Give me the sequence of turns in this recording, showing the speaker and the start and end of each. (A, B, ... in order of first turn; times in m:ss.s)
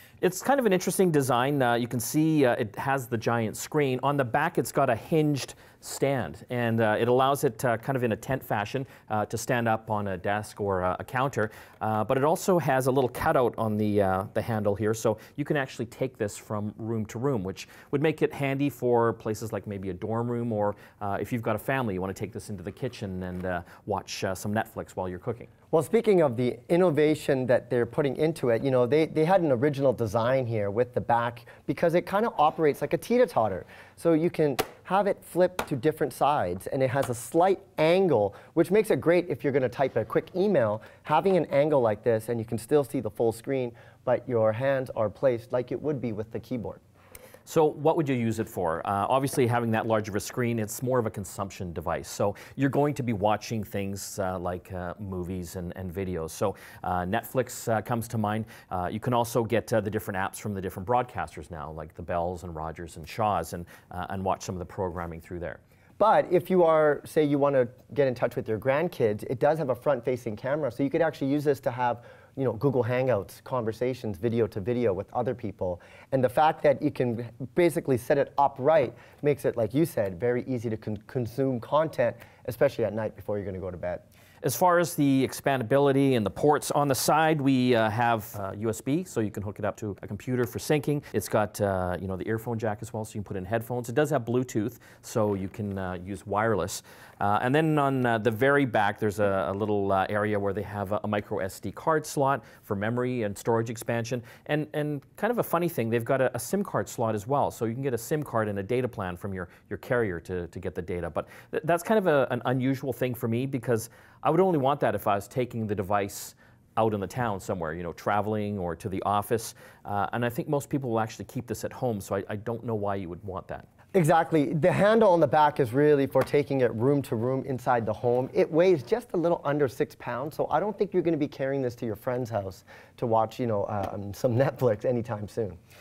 0:00.2-0:25.5 A
0:25.7-0:46.8 B
0:47.4-1:05.6 A
1:06.0-1:24.0 B
1:24.4-2:03.7 A
2:03.9-2:15.6 B